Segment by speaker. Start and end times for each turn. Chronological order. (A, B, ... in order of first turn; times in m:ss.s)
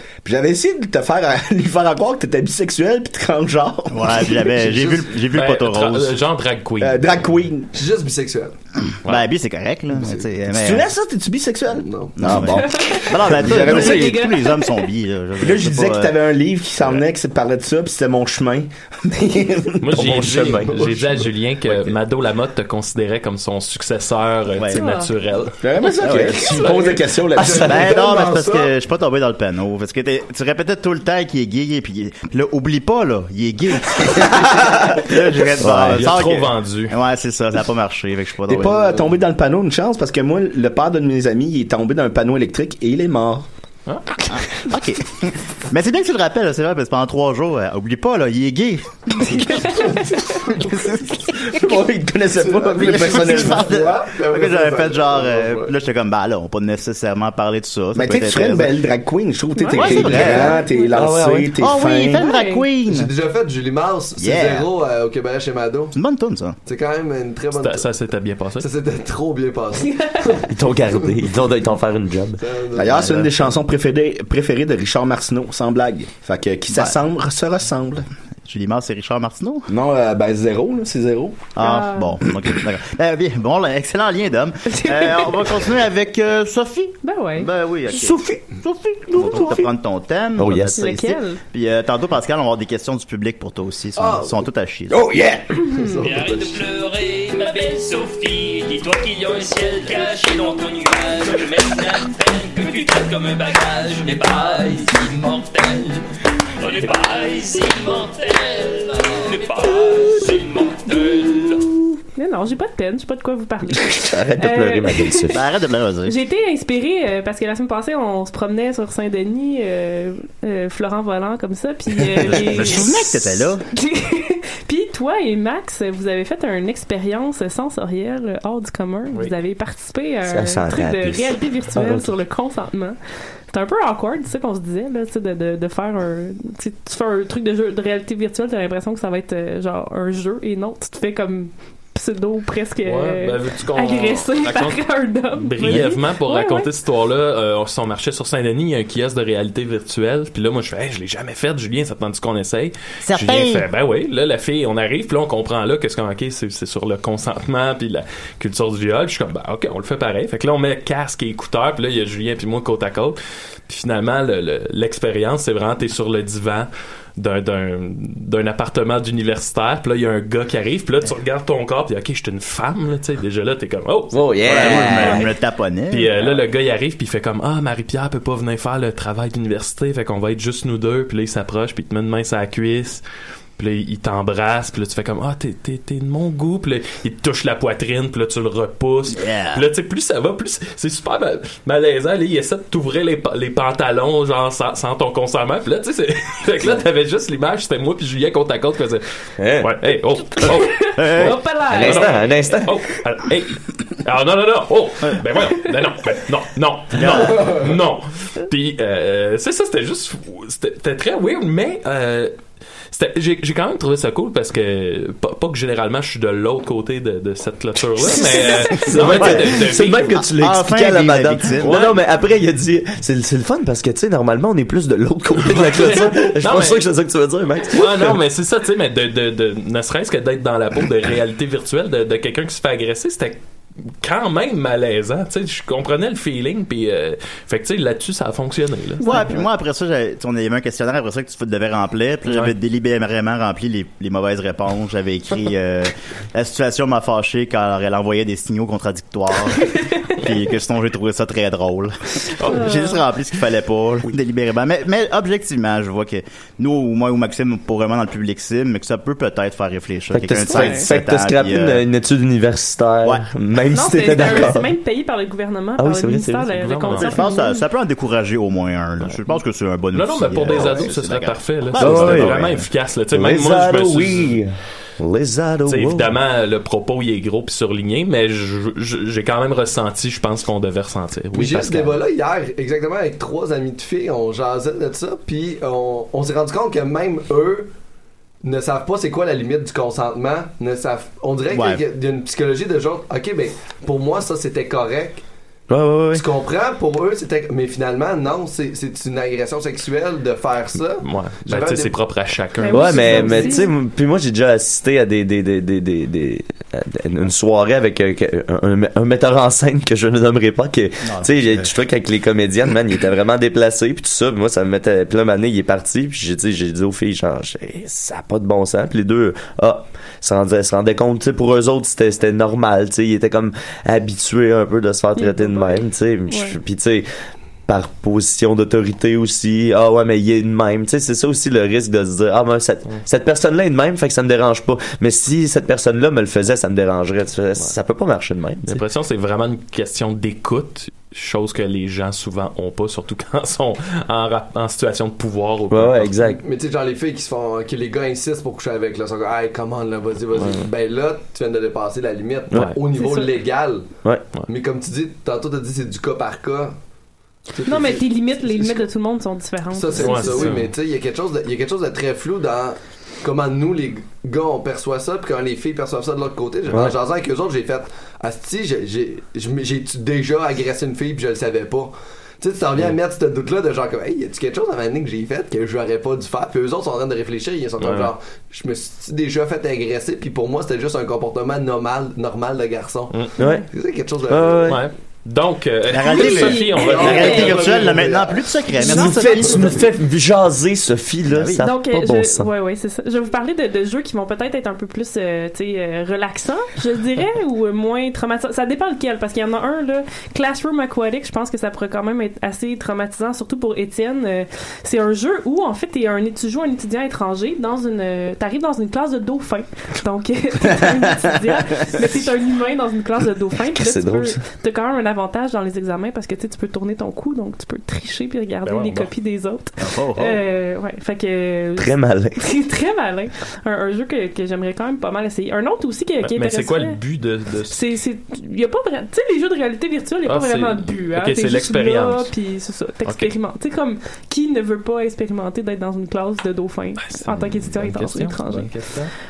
0:00.2-0:04.4 A
0:03.9-0:06.2 B
0:04.6-0:05.0 C
0:05.3-0:07.1 D
0:06.8-0:07.7 A
0:07.7-0:08.5 C
0:09.0-0:10.9 B
0:10.0-0:10.3 C
0:10.5-0:14.2 A
0:11.7-0:12.4 C
0:12.2-0:16.2 B
0:12.6-0:14.8 E
0:15.4-0:20.4 A
0:19.8-0:25.6 D
0:20.0-0:20.8 F
0:20.6-0:21.0 C
0:24.6-0:24.8 B
0:24.7-0:25.1 E
0:25.6-0:28.0 A
0:26.0-0:26.4 B
0:26.1-0:26.4 F
0:26.4-0:27.0 D
0:26.7-0:28.7 C
0:27.6-0:38.8 B
0:35.6-0:36.0 F
0:35.9-0:36.9 D
0:38.5-0:43.4 A
0:43.9-0:44.3 D
0:44.3-0:51.2 B
0:49.3-0:49.8 E
0:49.7-0:50.7 C
0:51.4-0:53.7 A
0:52.4-0:55.7 C
0:52.8-0:58.8 B
0:57.9-1:02.2 A
0:59.6-1:00.9 E
0:59.7-1:00.6 B
1:00.9-1:01.5 F
1:01.6-1:03.1 B
1:02.1-1:02.7 E
1:02.9-1:06.0 C
1:04.2-1:04.7 B
1:05.9-1:06.6 B
1:06.6-1:07.9 C
1:07.5-1:08.7 D
1:08.6-1:11.1 C
1:09.8-1:10.4 E
1:10.5-1:12.4 F
1:12.4-1:13.2 C
1:12.8-1:18.0 A
1:16.7-1:17.0 B
1:18.4-1:19.7 B
1:19.7-1:21.5 A
1:21.6-1:35.0 B
1:21.6-1:22.2 E
1:24.7-1:25.5 E
1:27.0-1:27.5 E
1:27.9-1:28.5 A
1:29.0-1:29.7 A
1:30.4-1:30.9 F
1:30.8-1:31.4 E
1:34.0-1:34.4 C
1:34.9-1:35.6 A
1:35.6-1:36.6 C
1:35.6-1:36.0 E
1:36.0-1:46.0 G
1:46.6-1:51.7 G
1:52.0-1:55.4 E
1:53.7-1:55.4 F
1:55.3-1:56.2 B
1:56.0-2:13.0 E
2:02.2-2:03.6 B
2:10.3-2:12.2 F
2:13.5-2:26.7 E
2:22.8-2:24.8 D
2:25.3-2:55.2 D
2:33.0-2:33.7 B
2:54.1-2:55.3 F
2:54.4-2:56.2 B
2:55.9-3:03.0 D
3:03.6-3:19.0 D
3:09.1-3:09.7 B
3:19.4-3:20.4 F
3:19.6-3:32.3 D
3:20.7-3:22.5 E
3:21.0-3:21.3 B
3:21.6-3:22.8 F
3:26.9-3:27.6 B
3:32.9-3:40.2 D
3:38.8-3:48.2 F
3:39.0-3:39.6 B
3:40.3-3:41.8 B
3:41.6-3:42.0 D
3:45.4-3:46.9 D
3:47.7-3:53.4 D
3:54.0-3:59.2 D
3:59.0-3:59.4 E
3:59.0-4:21.8 B
4:02.3-4:02.5 D
4:09.6-4:09.8 E
4:12.5-4:13.0 E
4:20.1-4:24.7 F
4:20.5-4:20.8 E
4:23.7-4:27.6 E
4:25.8-4:26.5 F
4:26.6-4:27.1 D
4:27.0-4:32.6 B
4:29.9-4:34.4 D
4:31.7-4:32.5 F
4:33.1-4:36.1 F
4:35.7-4:42.0 D
4:41.3-4:47.7 C
4:48.4-4:55.2 C
4:51.5-4:51.8 B
4:55.7-4:56.3 F
4:56.1-5:01.9 C
5:01.0-5:03.6 D
5:02.6-5:03.7 E
5:02.7-5:27.1 F
5:11.0-5:11.7 B
5:25.2-5:26.6 E
5:27.7-5:38.8 F
5:38.6-5:46.2 D
5:45.7-5:46.4 F
5:46.4-5:56.8 C
5:50.4-5:50.6 F
5:52.5-5:52.8 F
5:52.9-5:53.3 E
5:57.5-5:58.9 C
5:57.6-6:00.6 E
5:59.7-6:24.7 C
6:00.0-6:00.7 D
6:06.7-6:06.9 F
6:17.8-6:18.1 D
6:23.4-6:23.6 F
6:24.3-6:24.8 F
6:24.7-6:27.5 D
6:25.9-6:29.7 B
6:26.1-6:27.6 E
6:26.8-6:28.6 C
6:28.8-6:32.5 F
6:28.8-6:29.5 E
6:29.4-6:29.7 C
6:31.3-6:31.6 B
6:31.6-7:07.0 E
6:53.7-6:54.4 F
6:58.6-6:59.1 D
6:59.8-7:00.4 B
7:01.8-7:02.4 F
7:06.2-7:07.8 D
7:07.7-7:18.7 E
7:10.2-7:12.3 D
7:13.0-7:13.3 D
7:17.0-7:19.1 D